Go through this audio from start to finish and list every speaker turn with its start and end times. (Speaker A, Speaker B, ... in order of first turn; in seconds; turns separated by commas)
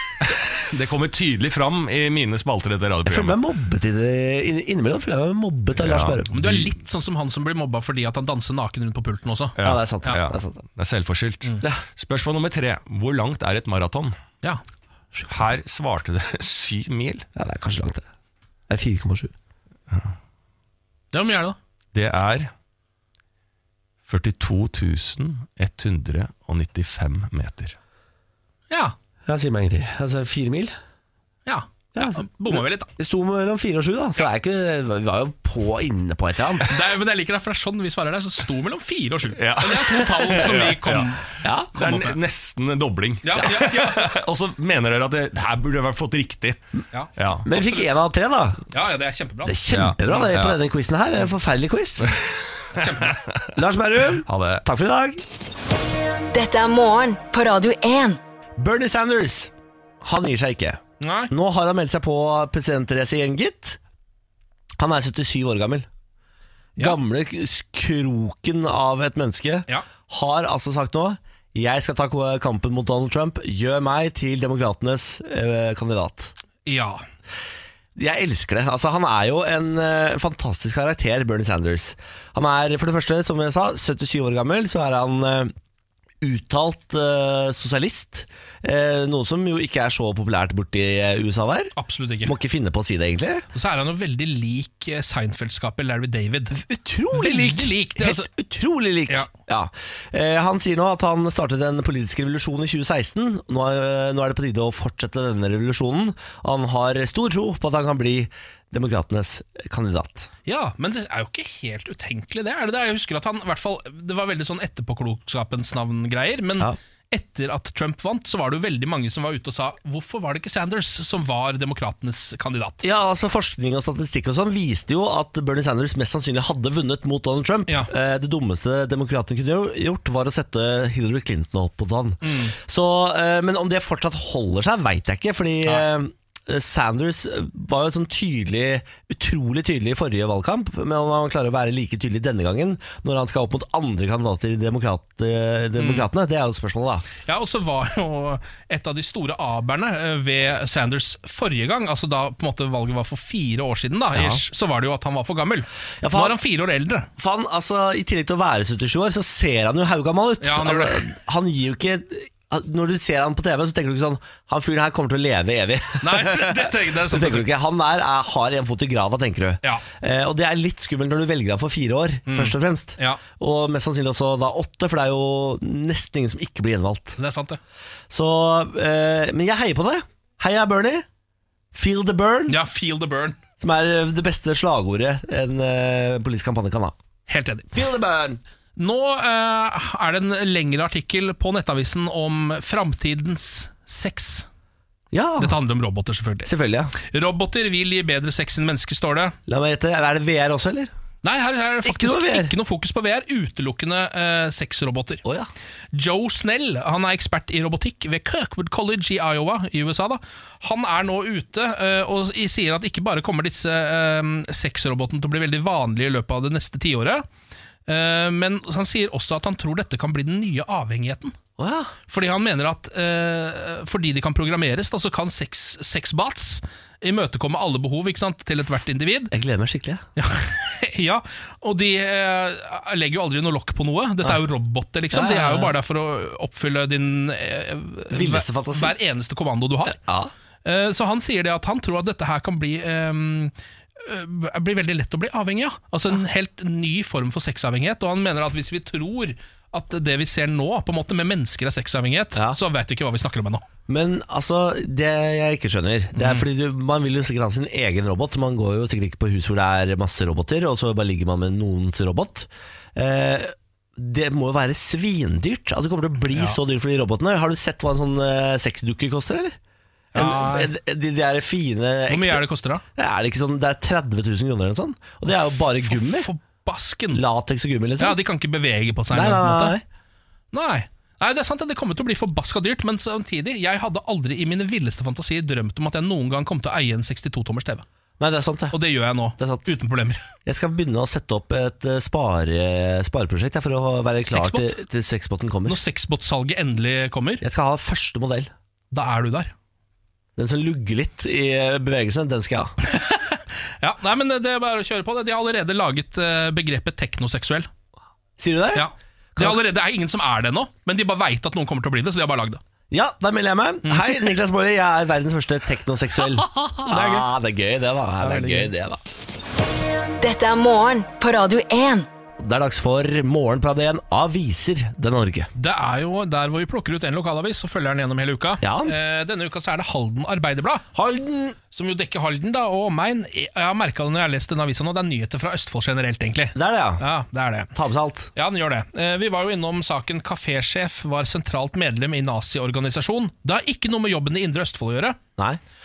Speaker A: 0.2-3.4, Speaker B: 3.1-6.7, Speaker A: 5.8-6.2, Speaker C: 6.3-10.2, Speaker A: 9.6-14.2, Speaker B: 9.6-10.6, Speaker B: 15.1-15.6, Speaker A: 15.3-17.3, Speaker B: 17.4-18.1, Speaker B: 18.7-19.3, Speaker C: 21.1-21.6, Speaker A: 21.9-22.5, Speaker A: 24.1-27.8, Speaker C: 28.7-28.9, Speaker B: 29.3-30.8, Speaker C: 31.5-32.9, Speaker B: 31.9-36.7, Speaker C: 36.6-42.2, Speaker A: 39.4-46.6, Speaker B: 41.4-41.8, Speaker C: 43.2-44.1, Speaker C: 46.9-47.9, Speaker A: 47.2-47.5, Speaker B: 47.5-48.6, Speaker C: 48.7-50.1, Speaker B: 49.5-52.1, Speaker A: 49.7-50.6, Speaker A: 52.0-53.5, Speaker C: 52.7-53.2, Speaker B: 53.5-55.2, Speaker A: 54.2-54.6, Speaker D: 56.3-58.2, Speaker B: 58.6-63.8, Speaker C: 61.0-61.3, Speaker B: 64.8-65.9, Speaker B: 66.8-76.3, Speaker C: 76.7-77.0, Speaker B: 78.0-85.5, Speaker B: 86.2-93.5, Speaker C: 91.8-92.4, Speaker C: 93.5-98.3, Speaker B: 96.5-110.3, Speaker C: 110.5-122.9, Speaker B: 122.8-147.1, Speaker C: 132.2-132.6, Speaker C: 145.8-146.1, Speaker C: 147.3-157.1, Speaker B: 154.2-154.4, Speaker B: 156.0-156.4, Speaker B: 157.2-177.2, Speaker C: 160.4-161.1, Speaker C: 166.0-167.5, Speaker C: 172.3-173.2, Speaker C: 177.2-177.6, Speaker B: 178.1-181.1, Speaker B: 181.7-182.6, Speaker C: 182.5-183.4, Speaker B: 183.6-187.0, Speaker C: 187.3-187.7, Speaker B: 187.7-188.4, Speaker C: 188.8-194.5, Speaker B: 195.1-195.6, Speaker C: 195.4-199.4, Speaker B: 196.4-196.9, Speaker B: 199.5-200.9, Speaker C: 201.2-205.2, Speaker B: 201.8-202.5, Speaker C: 205.9-217.2, Speaker C: 217.9-221.4, Speaker B: 221.6-222.1, Speaker C: 222.1-229.3, Speaker B: 229.3-230.0, Speaker C: 230.2-240.0, Speaker B: 235.1-235.7, Speaker B: 238.1-238.9, Speaker B: 239.9-240.3, Speaker C: 240.6-253.7, Speaker B: 253.9-269.6, Speaker C: 256.2-256.5, Speaker C: 270.1-270.7, Speaker B: 270.1-272.4, Speaker C: 272.1-272.8, Speaker B: 272.9-276.3, Speaker C: 275.8-277.2, Speaker B: 277.1-278.2, Speaker C: 278.0-279.8, Speaker B: 279.1-279.8, Speaker C: 280.5-287.9, Speaker B: 288.2-288.8, Speaker C: 288.7-290.2, Speaker B: 289.4-289.7, Speaker B: 290.5-295.8, Speaker C: 294.3-294.8, Speaker C: 295.7-297.4, Speaker B: 297.4-298.5, Speaker C: 298.9-299.5, Speaker B: 300.4-302.8, Speaker C: 302.9-307.7, Speaker B: 308.4-308.9, Speaker C: 308.8-312.6, Speaker B: 312.9-319.0, Speaker C: 313.9-314.3, Speaker C: 316.2-317.3, Speaker C: 318.2-318.7, Speaker D: 320.2-322.1, Speaker B: 322.4-325.5, Speaker C: 325.6-330.9, Speaker B: 328.6-328.9, Speaker B: 330.9-331.6, Speaker C: 331.7-337.7, Speaker B: 336.6-337.0, Speaker B: 337.7-338.3, Speaker C: 338.4-345.2